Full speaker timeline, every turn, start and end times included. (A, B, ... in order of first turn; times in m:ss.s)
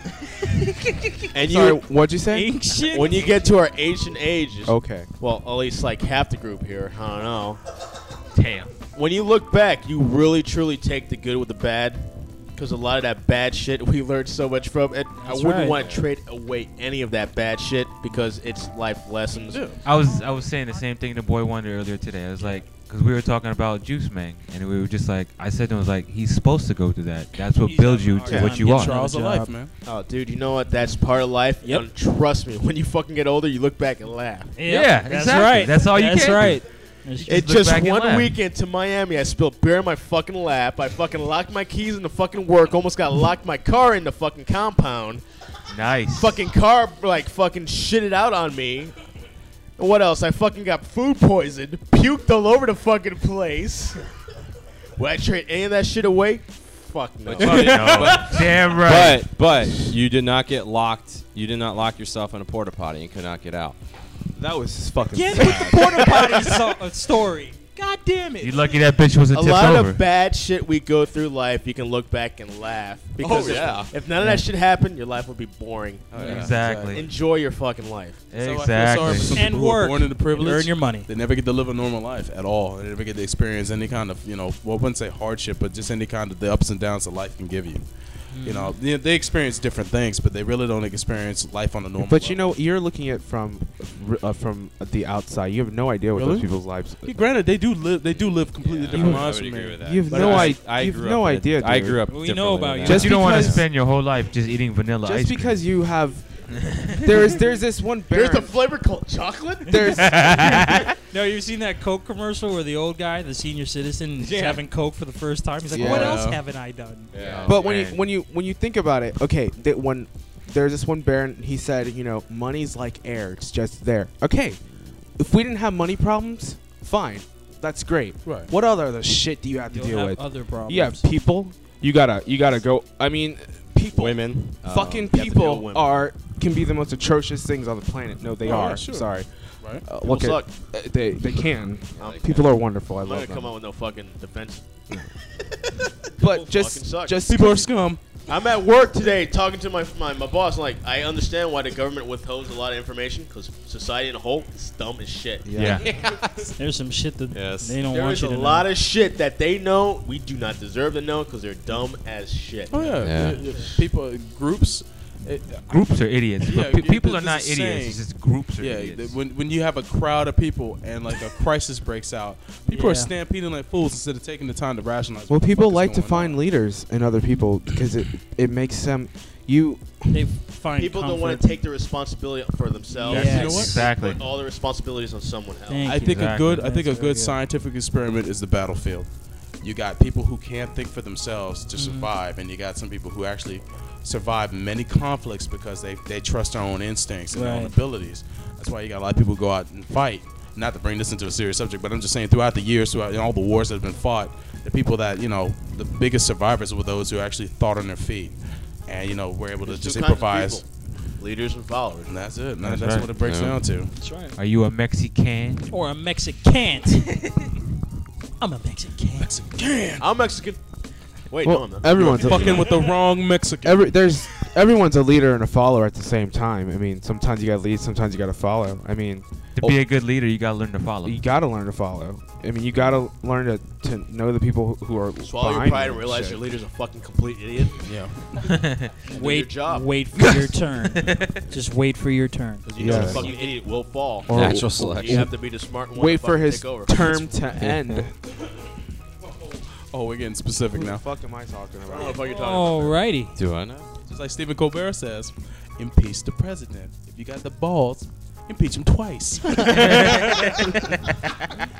0:00.8-0:01.1 A
0:01.3-0:01.8 B
0:01.4-0:02.5 C
0:02.3-0:03.6 A
0:02.8-0:07.6 B
0:04.7-0:05.1 C
0:08.3-0:08.7 D
0:08.9-0:12.0 B
0:12.6-0:19.7 B
0:15.2-0:15.8 A
0:15.8-0:16.0 E
0:19.5-0:19.8 F
0:19.8-0:29.0 D
0:27.6-0:29.5 A
0:28.2-0:28.6 B
0:28.6-0:29.7 F
0:29.8-0:34.5 B
0:34.6-0:37.3 A
0:34.6-0:36.6 D
0:37.2-0:38.4 D
0:37.3-0:45.2 B
0:45.7-0:46.4 D
0:46.1-0:49.0 B
0:49.8-0:54.0 B
0:55.0-0:58.3 B
0:57.2-1:03.8 E
0:57.4-0:59.3 D
0:57.8-0:58.1 F
1:04.3-1:06.5 C
1:05.1-1:08.8 A
1:08.4-1:10.0 D
1:09.3-1:16.4 B
1:13.2-1:13.9 F
1:13.2-1:13.8 E
1:16.1-1:16.5 E
1:16.1-1:17.1 F
1:16.2-1:17.0 D
1:16.9-1:18.2 B
1:18.3-1:19.5 D
1:18.4-1:27.8 F
1:19.3-1:21.1 A
1:28.3-1:28.7 A
1:28.4-1:32.5 F
1:32.0-1:37.2 C
1:36.1-1:36.5 F
1:37.0-1:40.6 F
1:38.6-1:43.6 E
1:38.9-1:42.0 C
1:42.1-1:43.5 A
1:42.8-1:43.6 C
1:42.9-1:45.5 D
1:45.0-1:48.5 C
1:46.6-1:47.0 D
1:48.1-1:50.2 B
1:49.7-1:50.9 C
1:49.9-1:50.9 D
1:51.1-1:57.1 A
1:54.2-1:54.6 E
1:55.7-1:56.3 C
1:55.7-1:56.4 F
1:57.1-1:57.5 E
1:57.2-1:57.5 F
1:57.4-2:04.6 C
1:57.5-1:58.0 D
2:05.2-2:19.3 C
2:08.2-2:08.5 F
2:09.7-2:11.0 A
2:13.9-2:15.1 E
2:15.1-2:16.0 B
2:18.4-2:19.8 F
2:19.8-2:23.5 C
2:19.9-2:20.5 B
2:22.0-2:22.3 E
2:22.0-2:24.6 B
2:26.2-2:27.7 C
2:26.2-2:27.2 B
2:27.2-2:28.0 F
2:28.3-2:36.1 B
2:35.4-2:35.8 C
2:35.6-2:36.2 E
2:36.6-2:38.7 A
2:37.3-2:37.8 E
2:37.9-2:43.7 B
2:42.7-2:48.0 F
2:43.0-2:43.4 E
2:45.7-2:49.2 D
2:48.6-2:56.4 F
2:52.7-2:53.1 A
2:55.3-3:00.2 C
3:00.1-3:01.6 A
3:00.8-3:05.9 B
3:03.0-3:03.8 A
3:03.1-3:03.8 F
3:03.1-3:04.2 D
3:05.7-3:07.4 A
3:05.8-3:09.1 F
3:05.9-3:06.6 D
3:09.6-3:30.6 F
3:11.7-3:12.1 A
3:17.3-3:17.7 A
3:29.6-3:30.6 B
3:31.2-3:32.2 B
3:32.1-3:33.9 F
3:32.6-3:33.1 D
3:33.2-3:33.6 E
3:34.0-3:34.4 A
3:34.4-3:35.7 D
3:35.7-3:37.3 A
3:38.4-3:39.4 A
3:39.2-3:40.0 F
3:40.0-3:40.6 B
3:41.3-3:42.6 B
3:41.4-3:42.8 C
3:41.8-3:43.9 F
3:43.6-3:49.8 C
3:49.6-3:51.2 D
3:51.0-3:56.4 C
3:55.2-3:57.9 B
3:57.8-3:58.4 F
3:58.4-3:58.9 D
3:59.0-4:03.4 A
3:59.1-3:59.9 B
4:00.9-4:01.4 D
4:02.6-4:07.5 B
4:02.8-4:03.3 C
4:04.3-4:05.3 C
4:04.3-4:05.3 E
4:05.9-4:08.1 C
4:07.6-4:08.0 E
4:09.9-4:11.0 F
4:10.7-4:12.2 C
4:11.8-4:13.0 B
4:12.3-4:13.4 A
4:13.4-4:13.9 E
4:14.1-4:20.6 F
4:19.7-4:20.9 D